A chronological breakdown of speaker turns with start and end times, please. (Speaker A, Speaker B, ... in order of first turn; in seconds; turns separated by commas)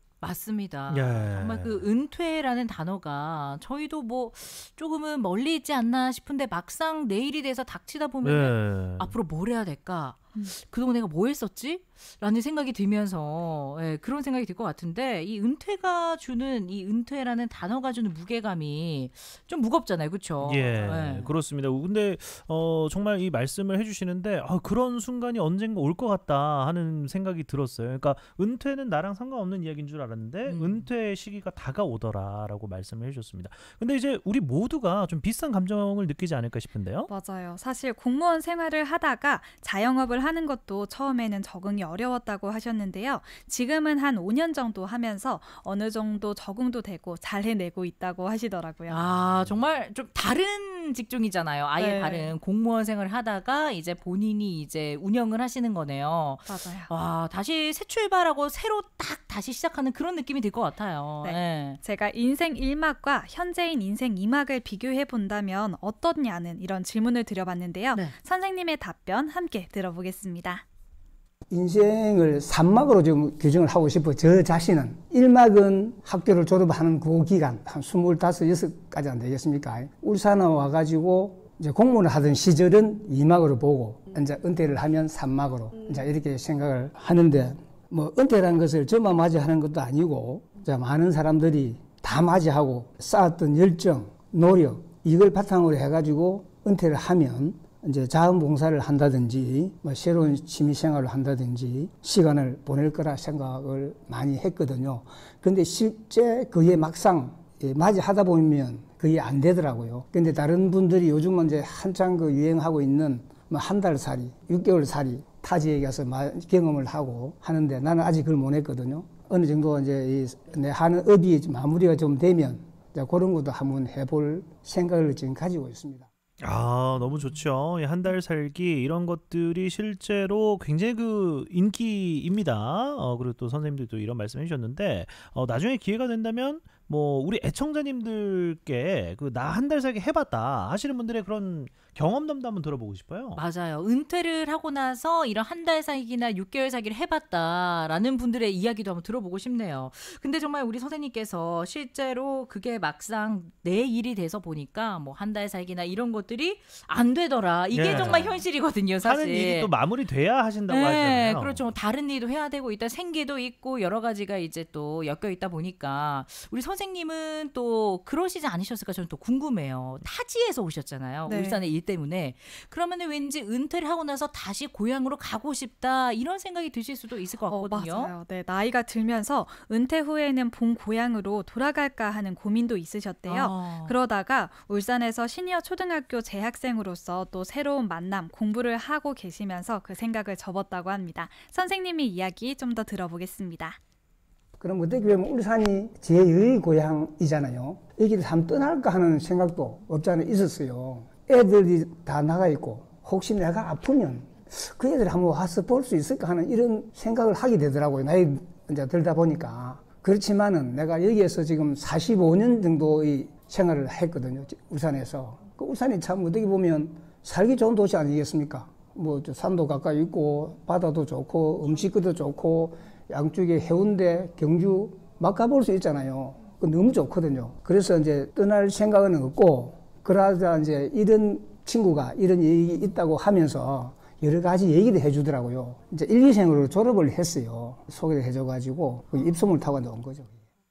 Speaker A: 0.2-21.3, Speaker B: 0.9-1.9, Speaker B: 8.2-9.1, Speaker B: 20.4-37.1, Speaker A: 30.4-30.9, Speaker C: 37.1-49.0, Speaker A: 48.9-61.8, Speaker B: 49.1-49.5, Speaker C: 51.8-52.3, Speaker C: 56.5-56.9, Speaker C: 61.2-70.6, Speaker D: 71.5-126.1, Speaker B: 126.4-143.4, Speaker A: 143.3-159.7, Speaker B: 157.7-158.4, Speaker B: 159.0-161.7, Speaker A: 160.7-178.1, Speaker C: 171.3-171.6, Speaker C: 177.5-193.8, Speaker A: 183.3-184.0, Speaker D: 194.6-240.4